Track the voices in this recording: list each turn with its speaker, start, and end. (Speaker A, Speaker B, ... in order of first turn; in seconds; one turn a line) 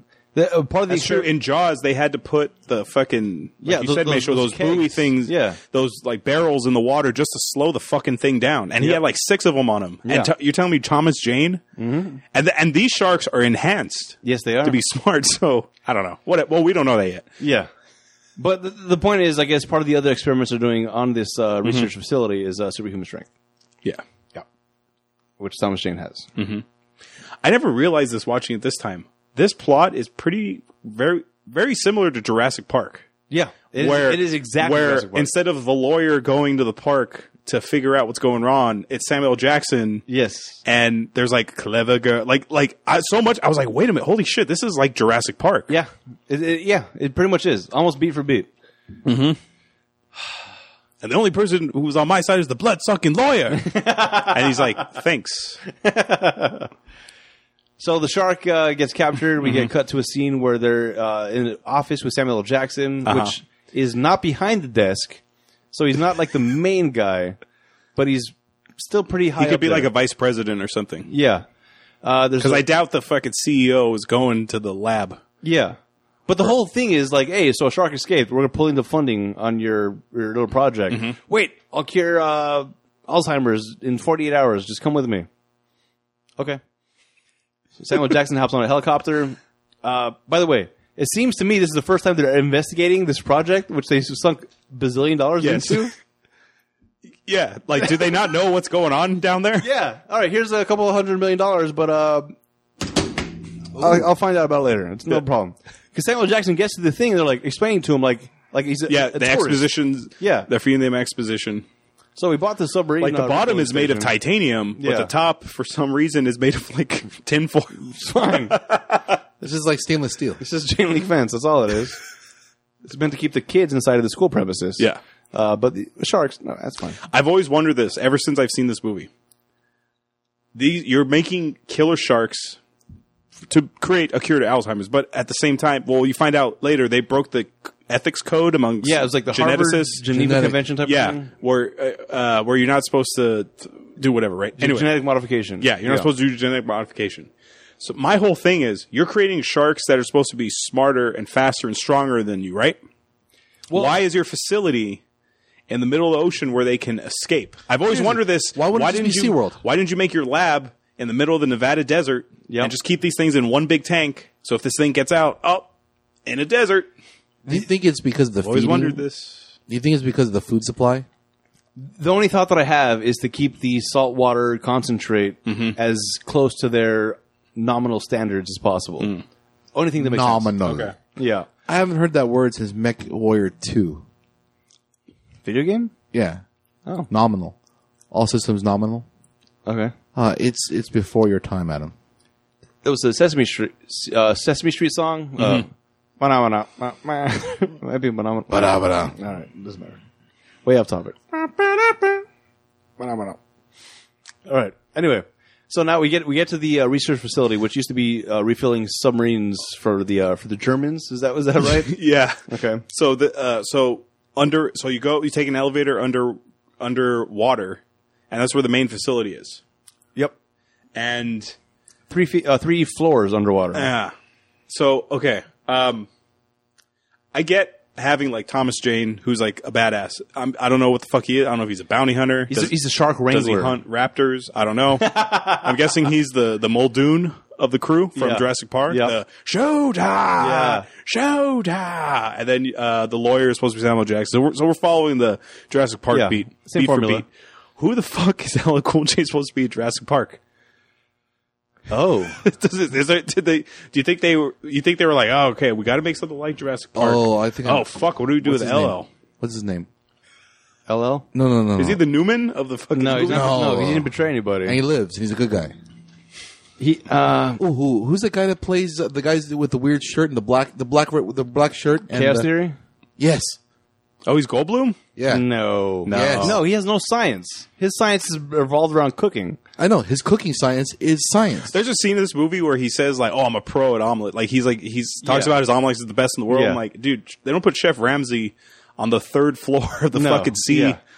Speaker A: 0.3-1.3
Speaker B: 0.9-11.6
Speaker A: 3.6-5.6
Speaker A: 8.8-9.0
Speaker A: 10.1-10.3
Speaker A: 11.8-12.2
Speaker B: 12.3-17.3
Speaker A: 14.2-14.8
Speaker A: 17.4-17.7
Speaker A: 18.4-23.3
Speaker B: 21.6-21.9
Speaker A: 25.4-26.3
Speaker B: 26.4-26.6
Speaker B: 27.4-33.1
Speaker A: 33.3-35.3
Speaker B: 33.8-40.0
Speaker A: 40.1-40.6
Speaker B: 40.6-45.7
Speaker A: 45.7-48.5
Speaker B: 49.0-49.4
Speaker B: 51.0-55.6
Speaker A: 53.6-54.8
Speaker A: 55.7-56.7
Speaker A: 57.8-65.2
Speaker B: 59.4-59.7
Speaker B: 63.0-63.4
Speaker A: 65.7-67.4
Speaker A: 68.0-69.9
Speaker B: 69.4-71.1
Speaker A: 71.1-71.4
Speaker A: 72.0-72.6
Speaker B: 72.4-75.2
Speaker A: 75.4-75.8
Speaker A: 76.3-85.3
Speaker B: 80.9-81.2
Speaker A: 87.8-95.9
Speaker B: 95.4-95.9
Speaker B: 97.2-99.6
Speaker A: 99.6-102.3
Speaker A: 103.7-110.5
Speaker B: 108.9-111.6
Speaker A: 112.2-114.1
Speaker B: 113.0-119.0
Speaker A: 114.8-115.1
Speaker A: 117.9-118.6
Speaker C: 119.4-120.4
Speaker A: 120.4-122.0
Speaker A: 122.8-127.0
Speaker B: 127.0-129.1
Speaker B: 130.5-132.6
Speaker B: 133.5-140.0
Speaker A: 138.8-141.3
Speaker C: 140.1-140.6
Speaker B: 140.8-144.9
Speaker A: 144.6-146.1
Speaker B: 145.6-147.3
Speaker B: 147.8-152.8
Speaker A: 153.7-154.0
Speaker B: 153.7-155.0
Speaker B: 155.7-165.7
Speaker C: 157.9-159.6
Speaker A: 162.5-162.7
Speaker B: 166.2-166.9
Speaker C: 167.4-169.0
Speaker B: 168.4-169.5
Speaker C: 169.7-171.1
Speaker A: 171.8-179.1
Speaker B: 175.4-175.8
Speaker A: 179.7-180.5
Speaker C: 180.0-180.9
Speaker B: 180.6-180.9
Speaker A: 181.2-181.5
Speaker C: 181.7-184.0
Speaker A: 185.4-185.9
Speaker C: 186.1-186.4
Speaker C: 187.1-187.6
Speaker C: 188.1-189.1
Speaker A: 189.7-189.9
Speaker C: 190.1-191.9
Speaker A: 192.8-195.7
Speaker A: 196.2-200.0
Speaker C: 198.5-199.1
Speaker A: 200.6-202.2
Speaker A: 203.0-203.4
Speaker A: 204.4-211.9
Speaker B: 211.8-219.6
Speaker A: 212.5-212.8
Speaker B: 220.9-221.5
Speaker A: 222.1-223.9
Speaker B: 223.7-224.1
Speaker B: 224.7-226.1
Speaker B: 227.3-232.7
Speaker A: 232.5-233.8
Speaker B: 233.3-247.3
Speaker A: 235.0-235.9
Speaker A: 238.2-239.1
Speaker A: 240.4-240.9
Speaker A: 246.1-247.2
Speaker B: 247.8-250.4
Speaker A: 251.9-252.4
Speaker B: 252.4-259.1
Speaker C: 256.9-257.9
Speaker C: 258.4-259.9
Speaker A: 260.9-261.2
Speaker C: 261.3-262.0
Speaker B: 261.8-263.6
Speaker A: 262.9-264.8
Speaker C: 263.2-264.1
Speaker C: 264.6-265.7
Speaker A: 266.8-267.6
Speaker C: 267.6-272.5
Speaker A: 272.1-272.8
Speaker C: 273.2-273.6
Speaker B: 274.2-275.0
Speaker C: 275.1-275.5
Speaker A: 275.3-279.6
Speaker C: 276.1-276.6
Speaker B: 276.1-276.6
Speaker C: 279.8-281.7
Speaker B: 281.7-291.0
Speaker A: 285.2-285.6
Speaker A: 286.5-286.8
Speaker A: 290.1-291.0